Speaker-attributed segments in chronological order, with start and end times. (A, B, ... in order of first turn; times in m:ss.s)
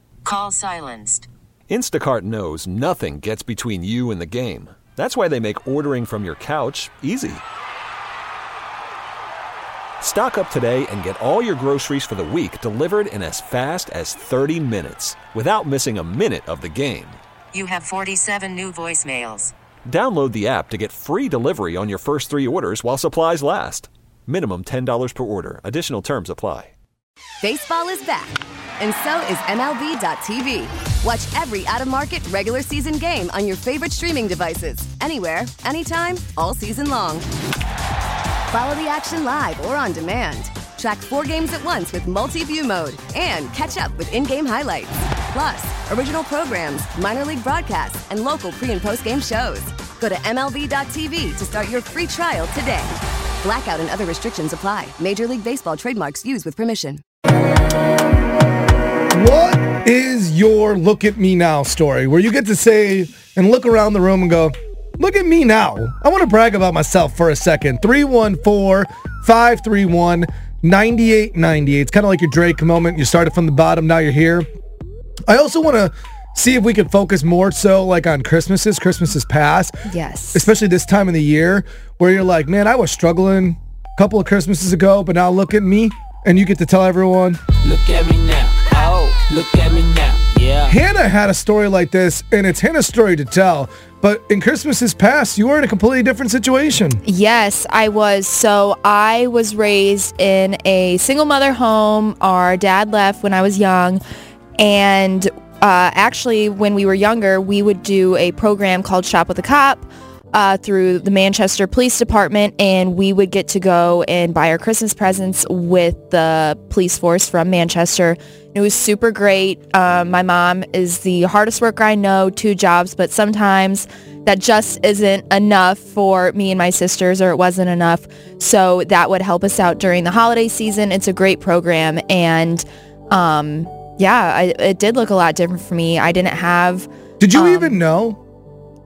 0:00.2-0:01.3 A
0:01.7-0:07.4 B
0:10.0-0:17.2 B
0:17.5-0:19.5 A
0:19.9-0:26.7 B
0:27.4-0:37.2 C
0:38.5-0:52.9 C
0:53.4-0:57.0 C
0:59.1-1:14.5 D
1:15.3-1:19.7 D
1:19.9-1:20.5 E
1:20.3-1:27.4 D
1:27.7-1:30.7 F
1:30.6-1:37.0 D
1:37.0-1:44.0 E
1:44.6-2:17.8 E
2:17.2-2:18.2 D